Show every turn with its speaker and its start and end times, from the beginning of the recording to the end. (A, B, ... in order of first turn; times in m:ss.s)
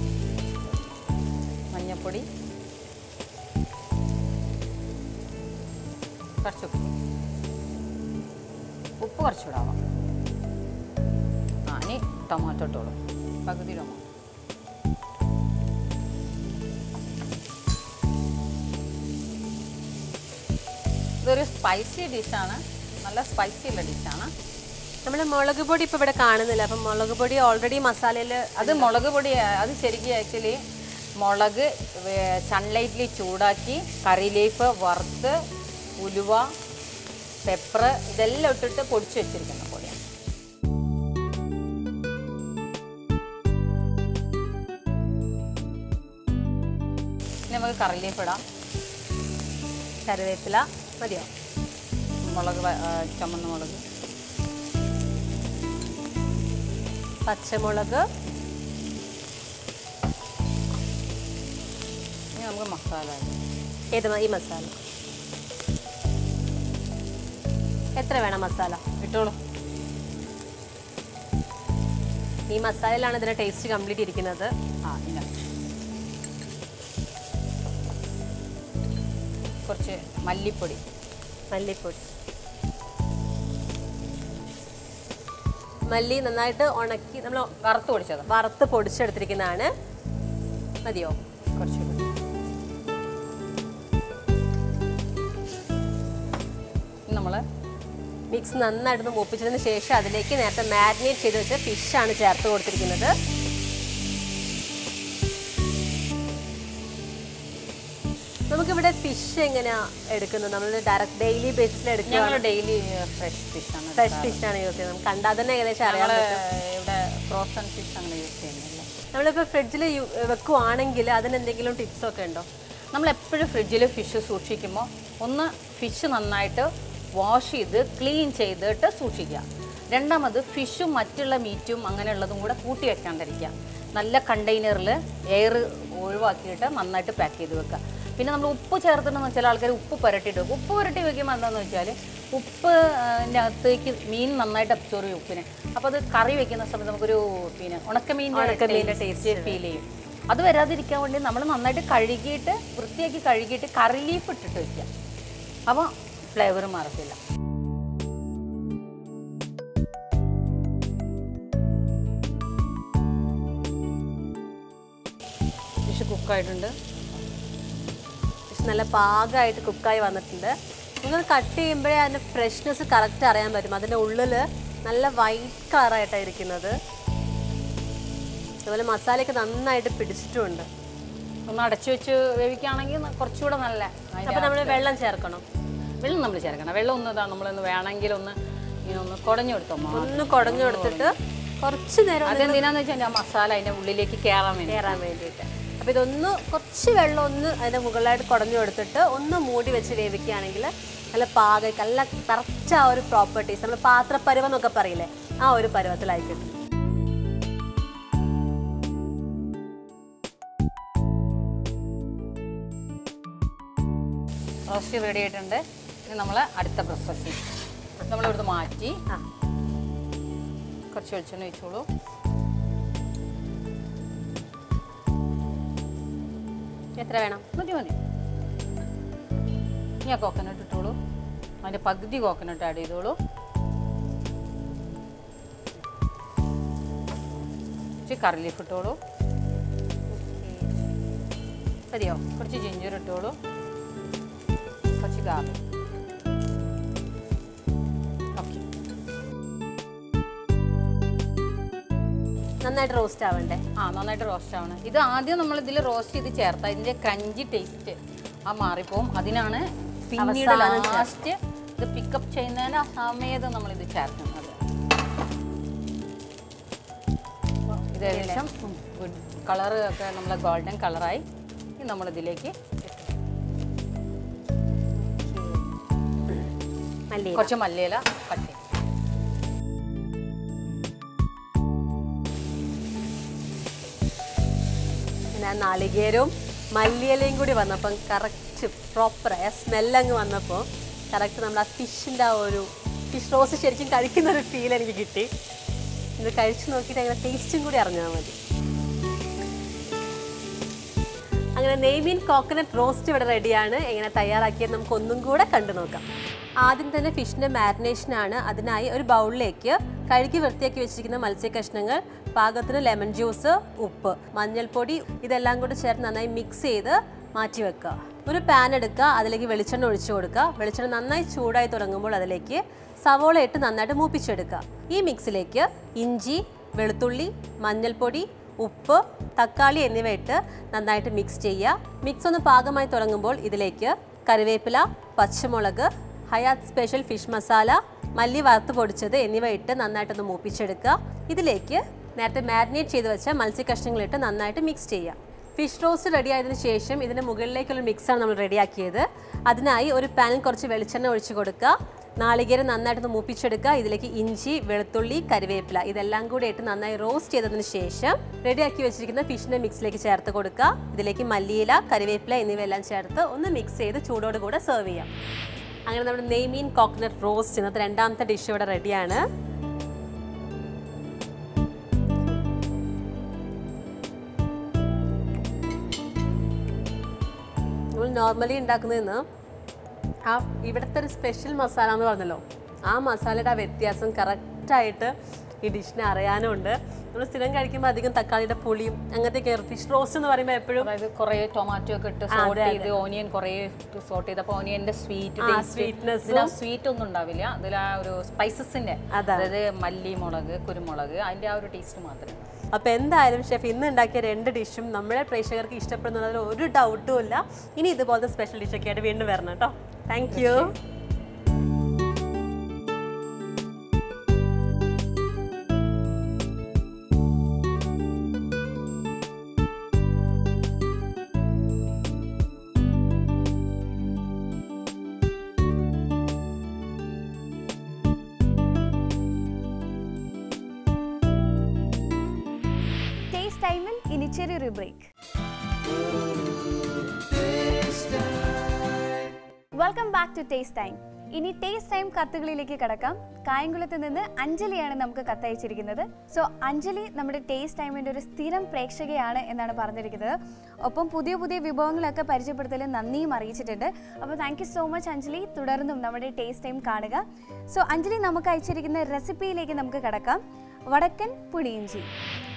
0:01.7-0:02.3 A
0:06.4-0:06.9 A
0:09.0-0:09.8 A
0:11.7-0:14.0 A
0:21.2-0:24.3 A
0:25.0-0:28.9 B
0:28.6-0:30.6 A
0:31.2-0:35.3 A
0:36.0-0:36.5 A
0:37.4-0:40.0 A
0:47.5-0:48.4 A
0:50.0-0:51.3 B
0:52.2-0:53.8 A
0:57.2-0:58.0 B
1:02.4-1:03.4 A
1:03.9-1:04.7 B
1:08.0-1:08.8 B
1:09.0-1:09.4 A
1:12.5-1:14.5 B
1:14.8-1:15.3 A
1:19.6-1:20.8 A
1:21.5-1:22.0 B
1:25.9-1:27.5 B
1:27.6-1:28.3 A
1:28.3-1:29.7 B
1:30.8-1:31.2 B
1:31.6-1:32.0 A
1:37.1-1:37.4 A
1:38.3-1:43.1 B
1:48.5-1:52.4 B
1:52.1-1:54.4 A
1:54.0-1:56.4 B
1:55.8-1:58.9 A
1:59.1-2:02.5 B
2:02.9-2:34.9 A
2:28.3-2:29.6 B
2:35.7-2:37.2 A
2:45.9-2:46.7 A
2:48.5-2:56.7 B
2:58.6-3:00.7 B
3:01.5-3:04.8 A
3:04.2-3:05.4 B
3:06.0-3:08.4 A
3:08.9-3:11.1 A
3:09.9-3:12.6 B
3:12.2-3:15.0 A
3:14.7-3:26.5 B
3:34.7-3:37.4 A
3:38.0-3:39.0 A
3:40.9-3:41.8 A
3:47.0-3:47.4 B
3:47.6-3:48.0 A
3:50.0-3:51.0 A
3:51.6-3:53.2 A
3:58.0-3:59.0 A
4:00.1-4:00.7 B
4:01.9-4:02.2 B
4:02.4-4:03.4 A
4:04.9-4:05.6 A
4:08.4-4:08.6 A
4:12.6-4:13.6 B
4:13.8-4:18.0 A
4:18.5-4:24.5 A
4:20.2-4:21.1 B
4:27.7-4:31.2 A
4:28.0-4:28.4 B
4:31.8-4:32.5 A
4:32.8-4:33.1 B
4:35.0-4:35.6 B
4:37.1-4:37.5 B
4:37.3-4:38.6 A
4:45.3-4:55.3 B
4:56.2-4:58.4 B
5:01.6-5:06.0 B
5:06.6-6:05.1 B
6:05.9-6:09.2 B
6:18.0-6:19.2 B
6:20.3-6:30.9 B
6:30.8-6:42.4 A
6:32.3-6:32.9 B
6:35.4-6:36.5 B
6:39.1-6:39.5 B
6:42.7-6:50.8 B
6:50.3-6:50.7 A
7:13.3-7:15.0 C
7:19.8-7:40.4 C
7:40.9-7:42.0 C